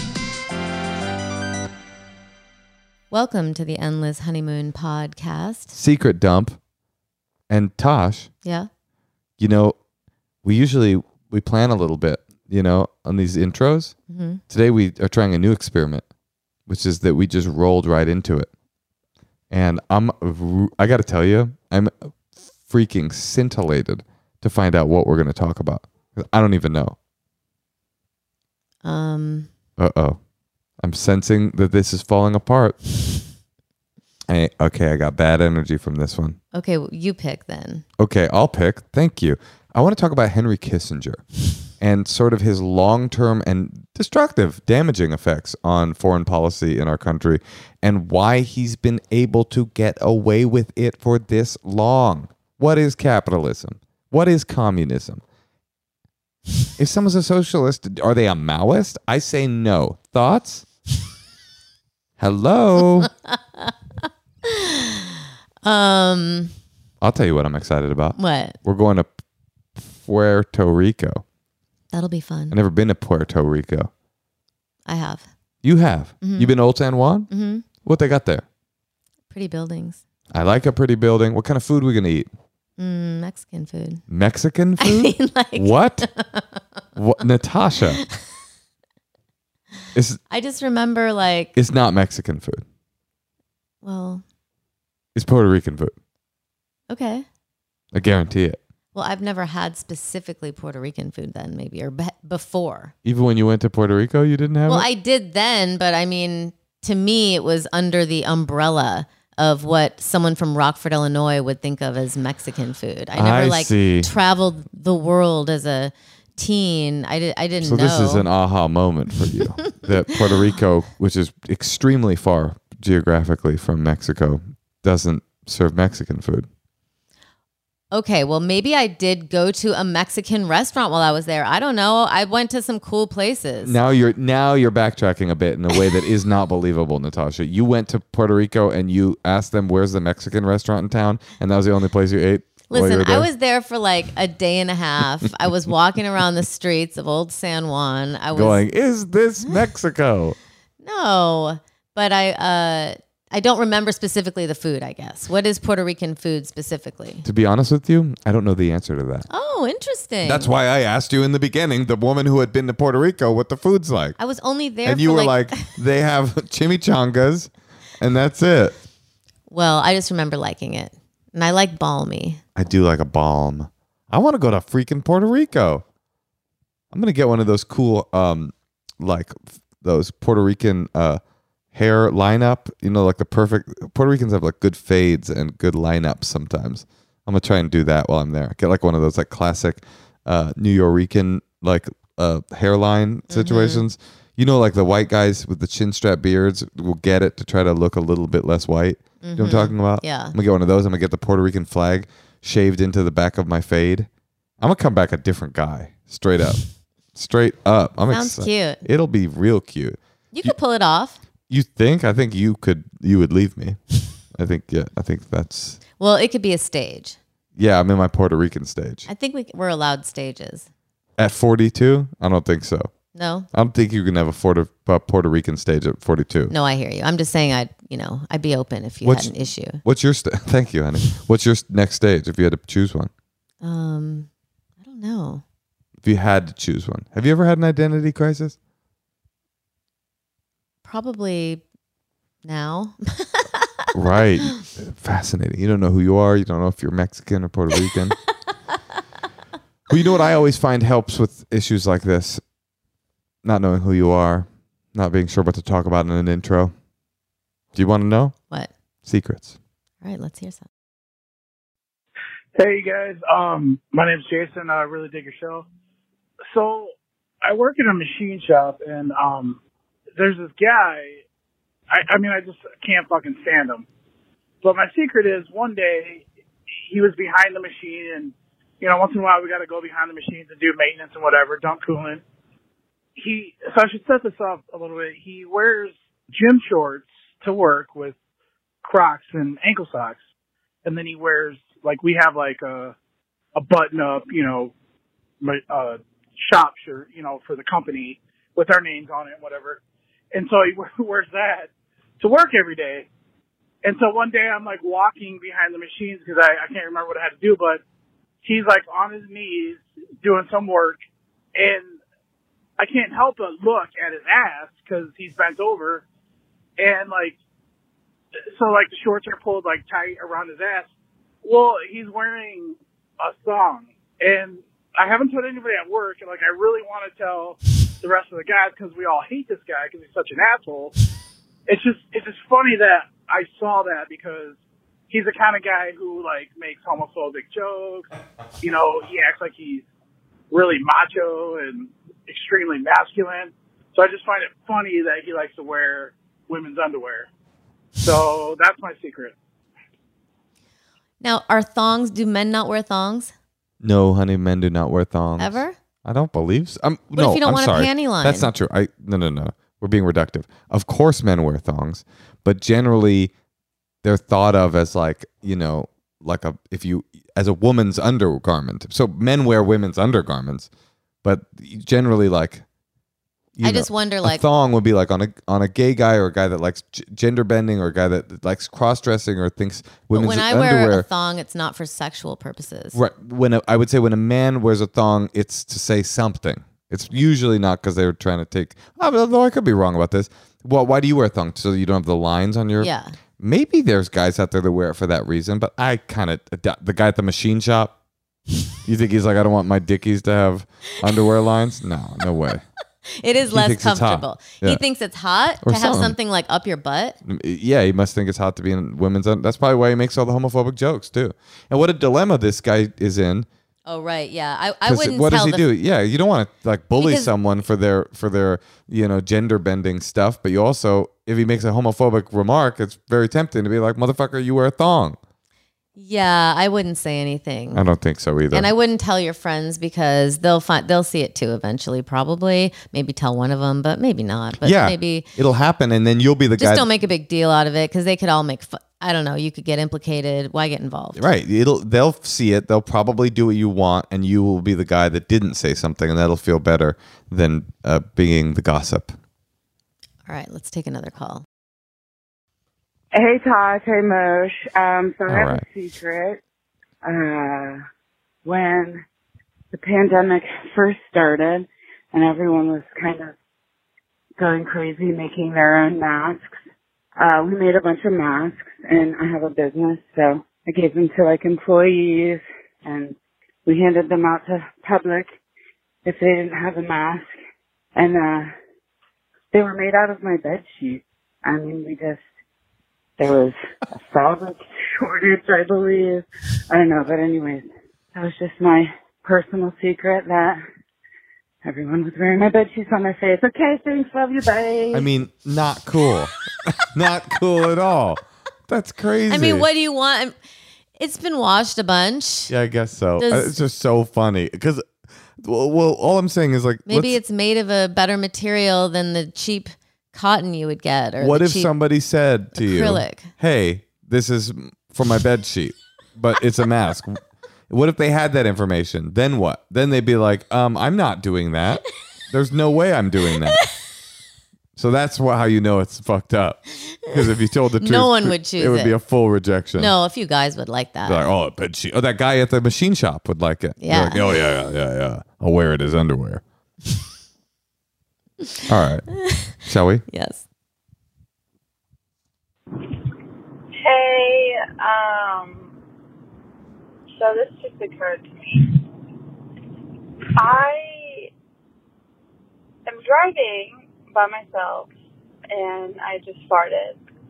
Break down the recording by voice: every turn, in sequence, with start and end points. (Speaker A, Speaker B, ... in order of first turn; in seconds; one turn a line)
Speaker A: 3.1-5.7
Speaker B: 5.7-6.6
Speaker B: 7.5-8.3
Speaker A: 8.4-8.7
Speaker B: 9.4-9.8
Speaker B: 10.4-13.9
Speaker A: 14.1-14.4
Speaker B: 14.5-16.1
Speaker B: 16.7-18.5
Speaker B: 19.5-21.9
Speaker B: 22.6-26.9
Speaker A: 28.8-29.5
Speaker B: 29.8-30.2
Speaker B: 30.8-32.8
Speaker B: 34.3-36.4
Speaker A: 36.5-37.8
Speaker B: 38.0-41.2
Speaker B: 41.8-55.2
Speaker B: 56.8-60.6
Speaker B: 62.2-63.1
Speaker A: 64.5-65.0
Speaker A: 65.6-66.5
Speaker B: 67.0-69.1
Speaker A: 68.2-68.5
Speaker B: 69.8-71.2
Speaker A: 71.9-72.5
Speaker B: 72.5-73.9
Speaker A: 74.8-75.3
Speaker B: 75.6-77.3
Speaker A: 76.2-76.5
Speaker A: 77.3-77.6
Speaker B: 77.8-78.4
Speaker A: 79.3-80.0
Speaker B: 80.3-82.3
Speaker A: 82.8-84.0
Speaker B: 84.1-86.1
Speaker A: 84.8-86.8
Speaker B: 86.9-88.0
Speaker B: 89.9-90.2
Speaker A: 90.3-91.5
Speaker B: 91.5-92.6
Speaker A: 93.8-94.2
Speaker B: 95.1-95.9
Speaker A: 96.9-97.2
Speaker B: 97.9-98.6
Speaker A: 98.9-102.9
Speaker B: 103.0-104.9
Speaker A: 104.7-118.2
Speaker B: 113.1-114.1
Speaker B: 117.6-126.5
Speaker A: 127.9-133.8
Speaker B: 133.6-143.3
Speaker A: 142.7-148.6
Speaker B: 148.3-150.3
Speaker A: 150.8-157.2
Speaker B: 157.2-159.2
Speaker A: 159.3-160.5
Speaker B: 160.2-164.2
Speaker A: 164.2-165.6
Speaker B: 164.8-167.5
Speaker B: 168.0-168.7
Speaker A: 169.5-172.4
Speaker B: 172.6-175.8
Speaker B: 176.9-181.2
Speaker B: 181.7-204.1
Speaker A: 193.3-193.8
Speaker A: 199.2-200.3
Speaker B: 204.6-206.6
Speaker B: 207.1-210.5
Speaker A: 208.1-208.8
Speaker A: 210.3-211.2
Speaker B: 211.5-213.8
Speaker B: 214.3-215.8
Speaker A: 216.0-217.2
Speaker B: 217.6-219.1
Speaker A: 219.1-220.7
Speaker B: 221.2-222.9
Speaker A: 223.1-223.5
Speaker B: 223.5-226.5
Speaker A: 226.5-229.8
Speaker B: 229.0-233.1
Speaker A: 233.6-234.3
Speaker A: 234.8-235.4
Speaker B: 236.0-238.6
Speaker A: 240.8-241.6
Speaker A: 242.4-243.9
Speaker B: 243.9-248.2
Speaker B: 249.9-252.4
Speaker B: 253.4-256.7
Speaker B: 257.7-258.3
Speaker B: 259.0-259.6
Speaker A: 260.0-260.7
Speaker C: 262.6-265.6
Speaker C: 266.5-269.6
Speaker C: 270.1-271.2
Speaker C: 271.9-273.9
Speaker C: 274.6-276.2
Speaker C: 276.8-282.2
Speaker C: 283.1-288.1
Speaker C: 288.8-290.2
Speaker C: 290.8-292.9
Speaker C: 293.6-294.7
Speaker C: 295.4-299.8
Speaker C: 300.3-303.1
Speaker C: 303.8-307.8
Speaker C: 308.4-311.0
Speaker C: 311.5-312.0
Speaker C: 312.8-316.0
Speaker C: 316.8-317.4
Speaker C: 318.5-320.9
Speaker C: 321.4-330.9
Speaker C: 331.7-334.6
Speaker C: 335.1-338.1
Speaker C: 338.6-339.8
Speaker C: 340.5-347.3
Speaker C: 347.9-349.3
Speaker A: 351.2-353.3
Speaker B: 353.8-363.3
Speaker A: 355.4-355.7
Speaker A: 357.1-358.5
Speaker B: 364.0-370.7
Speaker B: 371.2-372.6
Speaker B: 373.6-381.1
Speaker A: 373.6-374.4
Speaker A: 380.1-383.0
Speaker B: 382.9-397.9
Speaker A: 392.8-393.1
Speaker B: 398.8-402.6
Speaker A: 403.1-407.2
Speaker B: 403.5-404.8
Speaker B: 405.6-406.2
Speaker B: 407.2-413.5
Speaker A: 413.9-415.6
Speaker B: 414.9-425.2
Speaker A: 417.0-417.3
Speaker A: 425.9-427.8
Speaker B: 427.7-428.7
Speaker A: 428.5-435.3
Speaker B: 434.6-436.9
Speaker A: 436.6-441.2
Speaker B: 441.1-449.1
Speaker A: 450.2-451.4
Speaker D: 453.1-456.4
Speaker B: 455.3-455.6
Speaker D: 457.0-457.8
Speaker D: 458.4-459.0
Speaker D: 459.7-463.3
Speaker D: 464.4-466.4
Speaker D: 467.2-473.1
Speaker D: 473.6-475.3
Speaker D: 476.0-477.2
Speaker D: 477.9-478.5
Speaker D: 479.5-482.2
Speaker D: 483.2-490.6
Speaker D: 491.6-495.1
Speaker B: 494.9-499.7
Speaker A: 499.3-500.4
Speaker A: 501.0-502.5
Speaker B: 502.5-504.8
Speaker A: 503.2-503.5
Speaker B: 505.4-507.2
Speaker A: 506.9-511.7
Speaker B: 511.2-523.6
Speaker A: 512.6-513.3
Speaker B: 524.8-529.9
Speaker A: 527.8-528.9
Speaker A: 529.8-531.3
Speaker B: 531.0-536.4
Speaker A: 533.8-534.5
Speaker B: 538.7-540.0
Speaker A: 540.1-540.4
Speaker E: 543.8-545.7
Speaker E: 547.1-548.8
Speaker E: 550.3-551.3
Speaker E: 552.9-554.9
Speaker E: 555.5-557.0